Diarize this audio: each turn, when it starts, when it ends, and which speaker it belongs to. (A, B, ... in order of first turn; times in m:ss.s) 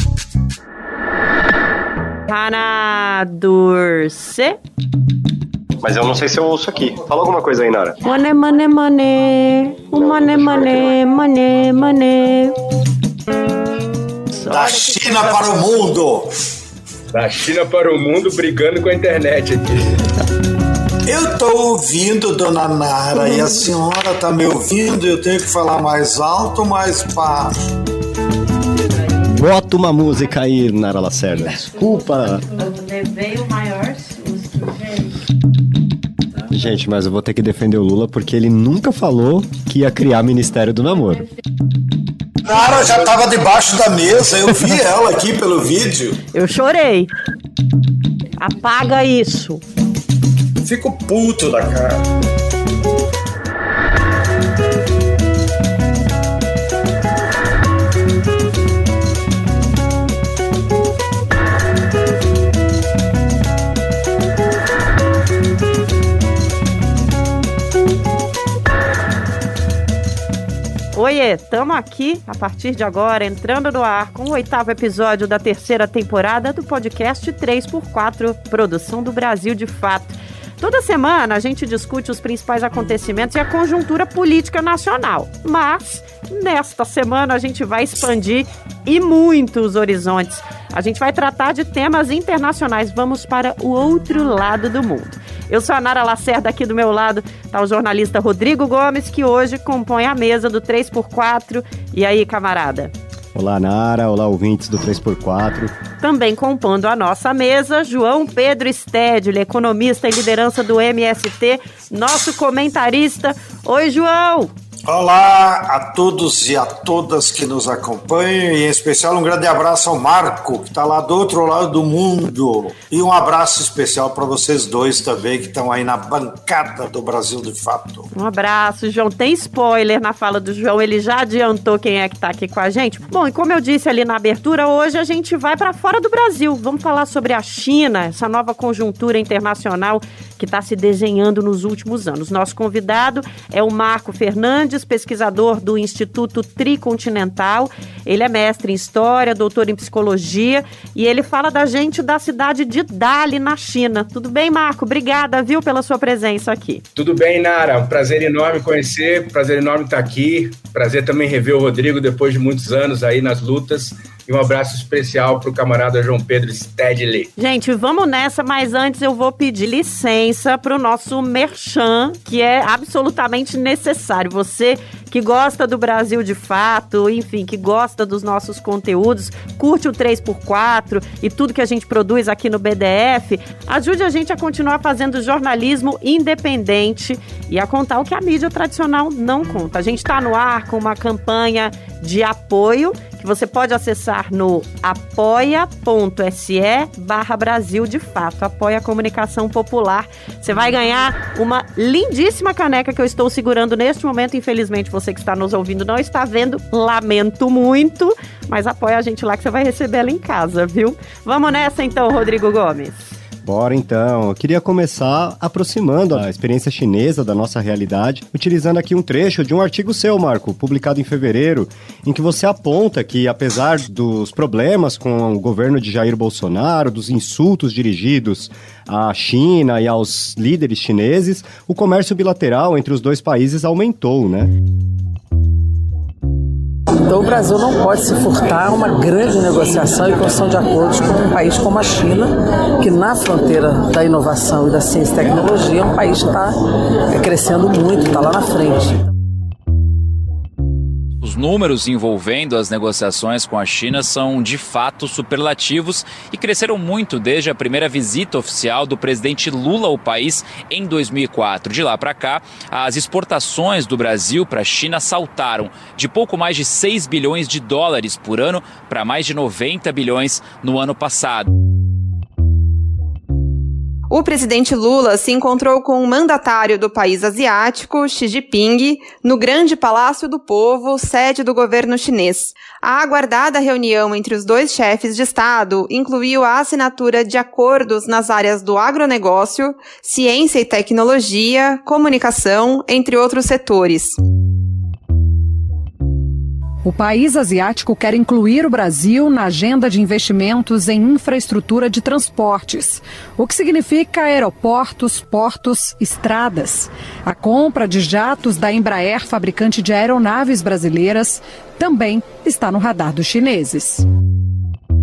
0:02.3-0:04.6 A
0:05.8-0:08.0 B
0:08.0-0:12.5 A
0:09.9-0:11.0 B
0:14.3-0:15.9 A
0:14.5-0:16.3 C
0:17.1-0:19.8 D
0:21.0-0:27.7 C
0:29.2-0:32.4 E
0:32.5-0:35.1 A
0:36.5-0:41.2 E
0:42.4-0:46.2 C
0:46.3-0:47.1 A
0:48.4-0:49.6 A
0:50.6-0:52.0 C
1:10.9-1:42.9 A
1:43.3-1:45.7 E
1:46.0-1:54.5 A
1:54.9-2:08.1 C
2:08.1-2:36.8 A
2:37.0-2:47.3 D
2:47.4-3:33.1 A
3:33.4-3:54.5 E
3:57.0-4:06.5 F
4:07.1-4:09.0 F
4:11.2-4:31.5 G
4:34.1-4:54.2 H
4:56.8-5:14.0 I